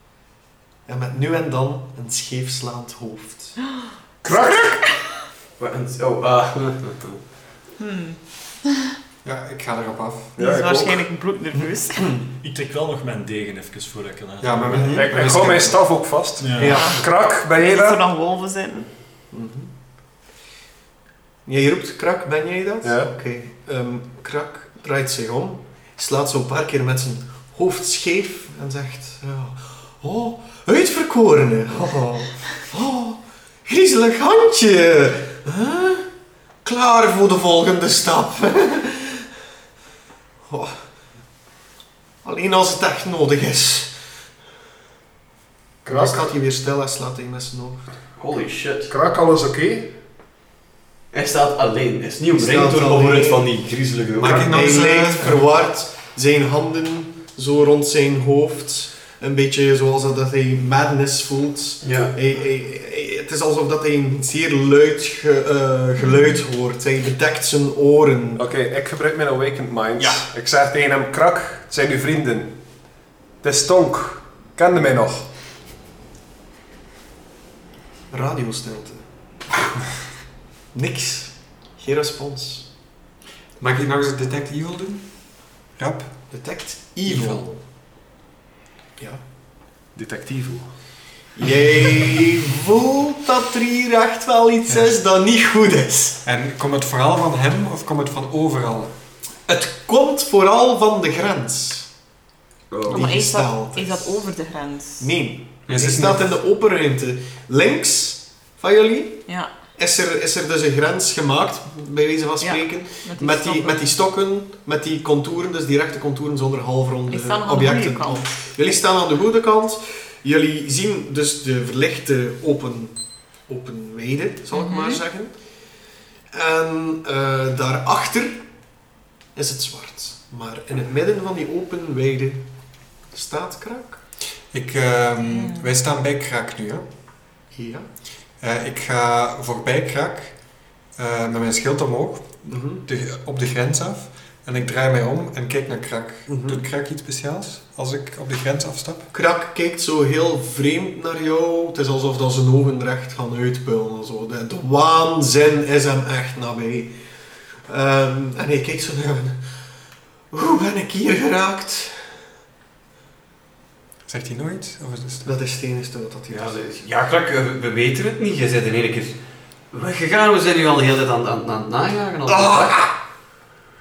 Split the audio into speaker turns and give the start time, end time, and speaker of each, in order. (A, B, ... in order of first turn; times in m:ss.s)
0:00.8-0:03.6 A
0:04.2-0:04.8 B
0:04.3-0:04.8 C
0:05.6-0:07.2 D
0:07.8-0:08.2 C
0:09.2-0:10.3 E
0:10.4-0:11.0 B
0:10.4-0:12.1 C
0:12.4-0:14.9 F
0:14.4-0:15.8 E
0:14.7-0:15.0 A
0:14.8-0:18.0 B
0:16.4-0:16.9 F
0:16.6-0:18.9 C
0:19.3-0:19.7 A
0:21.4-0:36.1 A
0:22.8-0:23.1 B
0:36.6-0:39.3 A
0:40.4-0:40.8 A
0:42.2-0:43.9 A
0:45.8-0:47.9 A
0:45.9-0:46.3 B
0:48.2-0:48.9 D
0:48.9-0:49.9 B
0:51.1-0:54.5 D
0:52.4-0:53.5 A
0:54.2-0:55.4 E
0:54.2-1:08.4 A
1:01.8-1:02.1 D
1:08.4-1:12.5 B
1:13.4-1:15.3 B
1:18.1-1:19.0 A
1:20.7-1:22.7 A
1:23.6-1:25.0 E
1:25.8-1:26.1 E
1:26.3-1:27.6 A
1:29.9-1:30.6 B
1:31.4-1:36.2 A
1:36.2-1:38.9 E
1:39.5-1:41.9 A
1:42.7-1:43.1 D
1:42.9-1:44.3 A
1:42.9-1:45.1 C
1:45.0-2:05.3 A
1:45.7-1:46.0 D
1:52.4-1:53.8 C
1:57.1-1:58.5 C
2:04.5-2:05.0 C
2:06.3-2:08.4 A
2:09.3-2:12.5 A
2:13.1-2:14.0 A
2:14.5-2:16.8 E
2:15.3-2:15.6 C
2:17.5-2:17.9 A
2:18.4-2:20.4 E
2:20.9-2:29.1 E
2:22.5-2:22.8 A
2:26.3-2:26.6 A
2:29.1-2:37.0 A
2:37.6-2:39.4 A
2:40.3-2:42.1 A
2:44.1-2:45.3 E
2:45.2-2:46.6 A
2:46.3-2:49.2 D
2:49.7-2:52.8 D
2:52.3-2:52.9 A